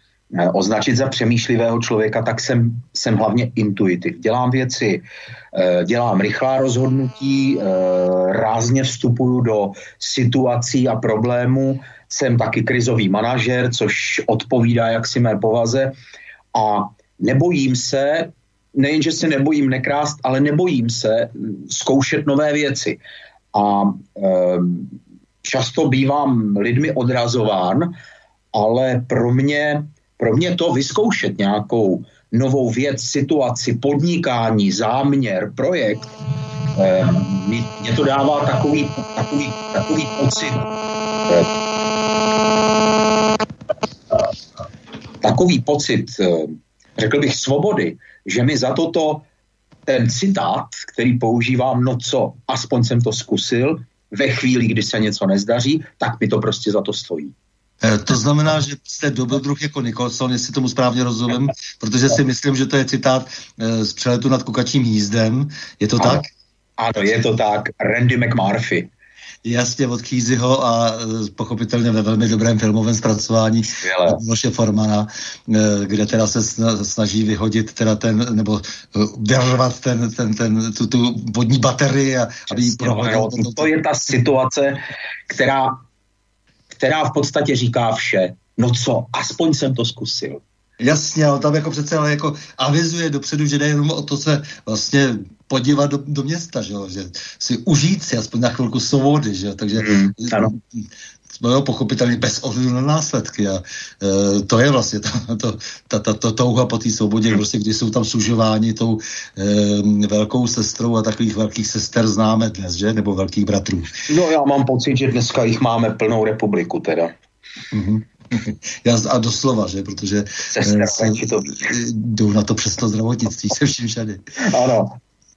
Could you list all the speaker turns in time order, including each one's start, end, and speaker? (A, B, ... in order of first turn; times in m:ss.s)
0:00.3-0:15.9 A
0:16.5-0:23.0 A
0:23.5-0:27.9 A
0:28.5-0:36.1 A
0:36.7-0:40.7 A
0:45.2-0:49.3 A
0:49.9-0:57.4 A
0:57.8-1:06.3 B
1:06.0-1:06.3 A
1:06.8-1:08.9 A
1:09.4-1:23.7 B
1:13.8-1:14.2 A
1:22.5-1:25.8 A
1:26.7-1:30.4 A
1:30.8-1:40.8 B
1:39.8-1:40.5 A
1:41.4-1:54.0 B
1:54.1-1:57.1 A
1:57.7-2:04.2 B
2:00.5-2:01.7 A
2:04.4-2:05.0 A